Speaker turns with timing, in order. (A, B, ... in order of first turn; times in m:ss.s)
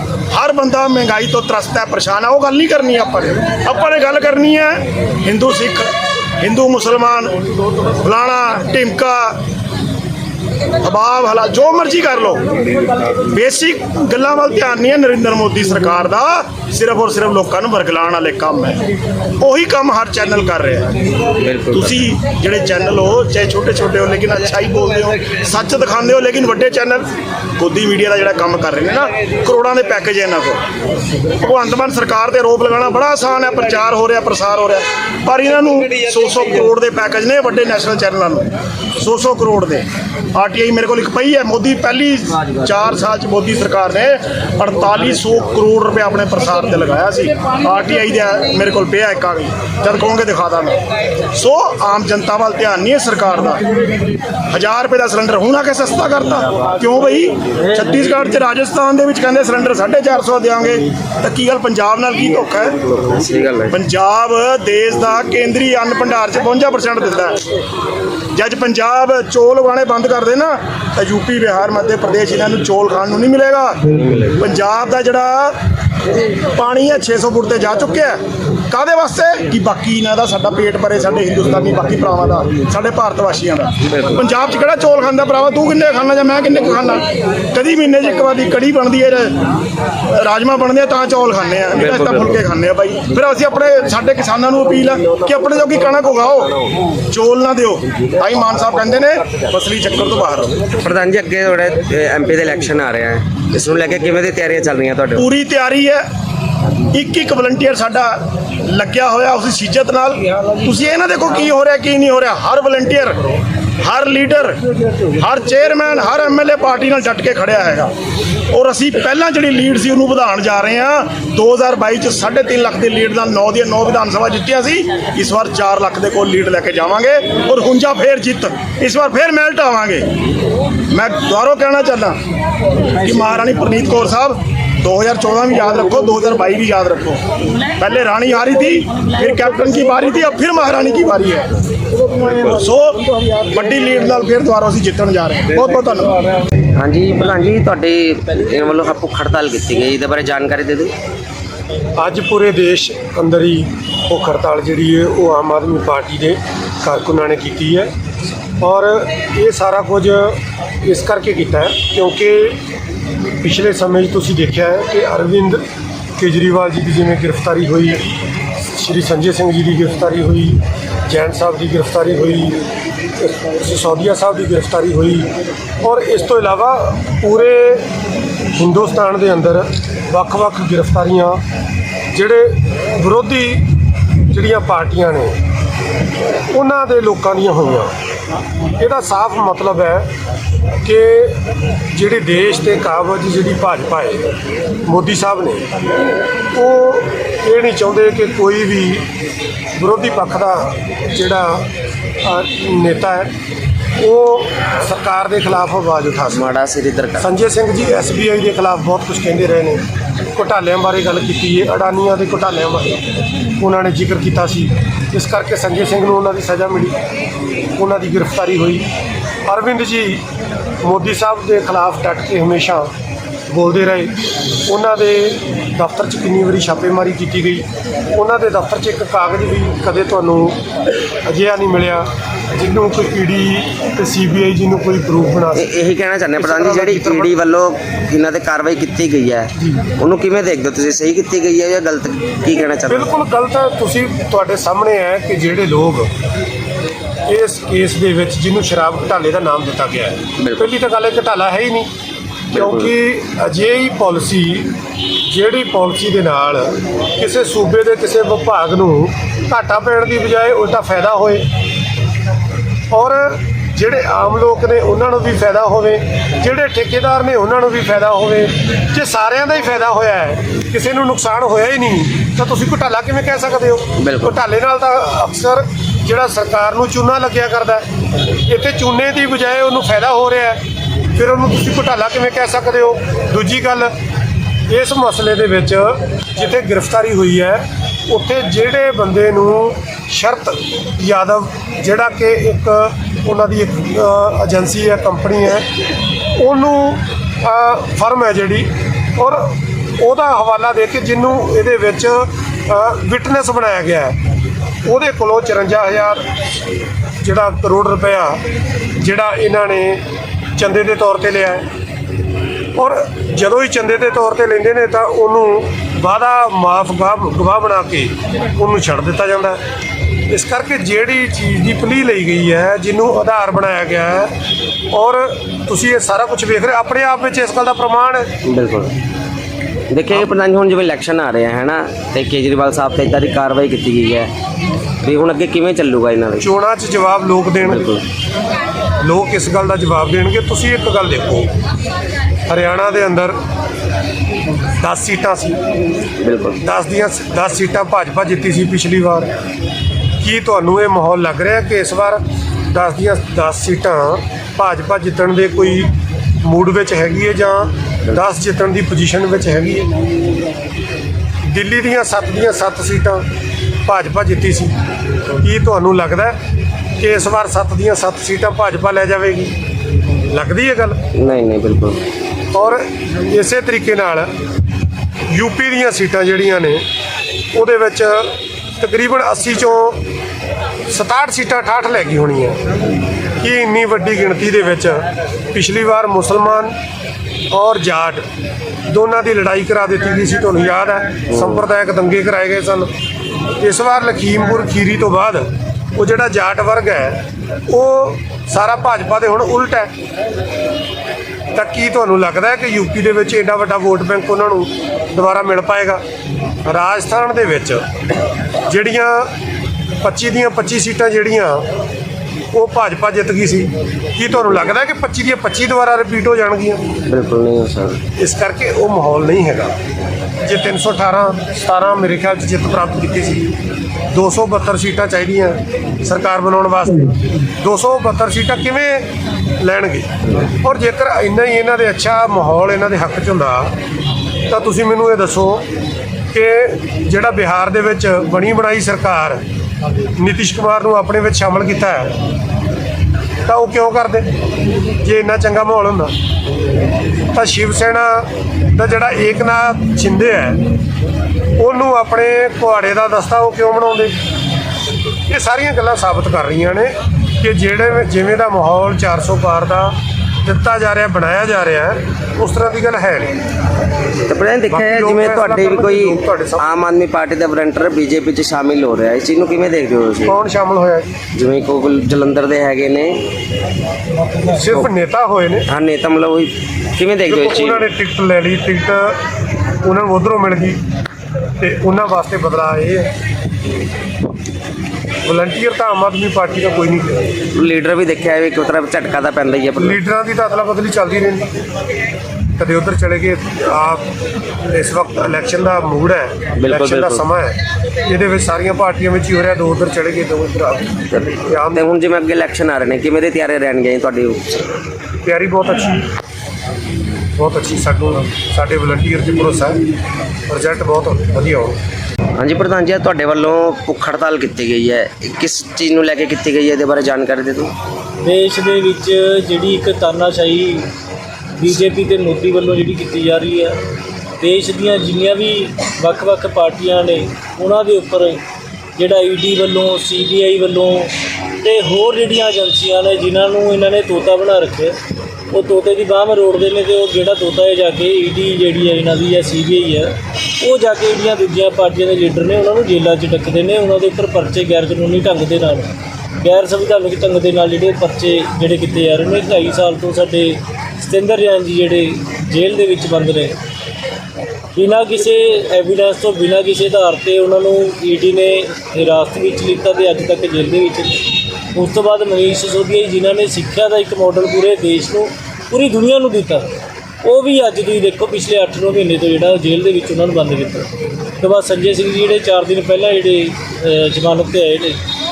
0:00.3-0:05.9 A
0:06.4-0:09.4 A
0:10.8-0:12.5 A
0:13.2-0:18.8 A
0:19.4-0:21.0 A
0:21.4-0:22.0 B
0:21.7-0:30.6 A
0:31.4-0:50.8 A
0:51.3-0:53.6 A
0:54.5-1:02.8 A
1:02.8-1:03.8 B
1:03.7-1:07.4 A
1:08.3-1:13.8 A
1:13.9-1:14.4 B
1:14.4-1:15.6 A
1:16.5-1:18.2 A
1:18.7-1:29.5 A
1:23.9-1:24.1 B
1:30.1-1:40.6 A
1:31.8-1:32.4 B
1:40.7-1:45.3 B
1:45.2-1:46.0 A
1:46.9-1:53.2 A
1:53.8-1:54.6 A
1:55.1-1:57.9 A
1:58.5-2:10.1 A
2:10.9-2:12.2 A
2:13.0-2:17.2 A
2:17.8-2:26.2 A
2:26.8-2:30.9 B
2:32.0-2:37.9 C
2:38.6-2:42.6 C
2:43.4-2:45.6 C
2:46.2-2:48.1 C
2:48.6-2:52.6 C
2:53.2-2:55.3 C
2:55.8-2:57.9 C
2:58.6-3:01.4 C
3:02.1-3:03.7 C
3:04.3-3:05.4 C
3:06.5-3:07.9 C
3:08.8-3:10.1 C
3:10.8-3:11.4 C
3:11.9-3:14.3 C
3:14.9-3:15.7 C
3:16.5-3:19.0 C
3:19.8-3:21.7 C
3:22.2-3:23.3 C
3:24.0-3:26.5 C
3:26.3-3:27.3 B
3:27.2-3:29.8 C
3:30.3-3:37.0 C
3:37.8-3:38.9 C
3:39.5-3:40.2 C
3:40.8-3:42.9 C
3:43.5-3:44.2 C
3:44.7-3:50.6 C
3:51.3-3:55.7 C
3:55.5-4:03.1 B
3:56.4-3:57.4 C
4:02.9-4:06.1 C
4:07.3-4:11.9 C
4:10.4-4:10.7 B
4:12.5-4:14.7 C
4:12.5-4:12.9 B
4:15.3-4:21.5 C
4:22.9-4:37.9 C
4:34.0-4:34.4 B
4:38.5-4:40.6 C
4:41.1-4:43.9 C
4:44.7-4:55.7 C
4:56.4-5:04.2 C
5:04.9-5:06.2 C
5:07.2-5:08.4 C
5:09.0-5:10.0 C
5:10.6-5:11.7 C
5:12.8-5:19.6 C
5:20.3-5:24.3 C
5:24.9-5:28.3 C
5:28.4-5:28.9 B
5:29.9-5:34.3 B
5:35.0-5:36.5 B
5:36.4-5:37.9 C
5:37.6-5:38.0 B
5:39.0-5:41.5 C
5:42.5-5:43.4 C
5:44.8-5:45.6 C
5:46.2-5:46.6 B
5:46.6-5:49.3 C
5:50.2-5:55.9 C
5:56.4-5:59.9 C
6:01.5-6:03.2 C
6:03.9-6:04.8 C
6:05.4-6:06.4 C
6:07.0-6:09.6 C
6:10.3-6:11.0 C
6:11.2-6:12.0 B
6:12.5-6:14.3 C
6:15.3-6:16.8 C
6:17.5-6:20.0 C
6:20.9-6:22.6 C
6:23.4-6:26.8 C
6:27.5-6:28.2 C
6:28.9-6:32.9 C
6:31.3-6:31.6 B
6:33.6-6:39.9 C
6:41.5-6:46.0 C
6:46.7-6:47.9 C
6:48.7-6:49.3 C
6:50.0-6:51.7 C
6:52.5-6:56.9 C
6:57.1-6:58.0 B
6:58.2-6:59.7 C
7:00.4-7:03.5 C
7:04.1-7:13.8 C
7:14.5-7:15.7 C
7:16.3-7:19.4 C
7:20.2-7:22.2 C
7:23.5-7:24.3 C
7:25.0-7:26.1 C
7:27.3-7:30.7 C
7:31.6-7:34.2 C
7:35.3-7:43.4 C
7:44.3-7:50.4 B
7:44.7-7:46.7 C
7:50.2-7:51.2 C
7:51.3-7:53.2 B
7:54.5-7:55.7 C
7:55.7-7:57.9 B
7:57.2-7:59.2 C
7:59.8-8:00.8 C
8:01.6-8:03.1 C
8:05.2-8:07.3 C
8:07.5-8:10.0 B
8:09.8-8:11.5 C
8:12.6-8:14.1 C
8:14.6-8:21.9 C
8:16.6-8:17.2 B
8:21.1-8:24.7 B
8:25.2-8:26.1 C
8:27.4-8:29.8 C
8:30.5-8:31.8 C
8:32.4-8:37.7 B
8:38.2-8:40.9 D
8:41.6-8:43.8 D
8:44.4-8:48.4 D
8:49.0-8:55.0 D
8:55.5-9:13.6 D
9:14.7-9:26.7 D
9:27.2-9:35.0 D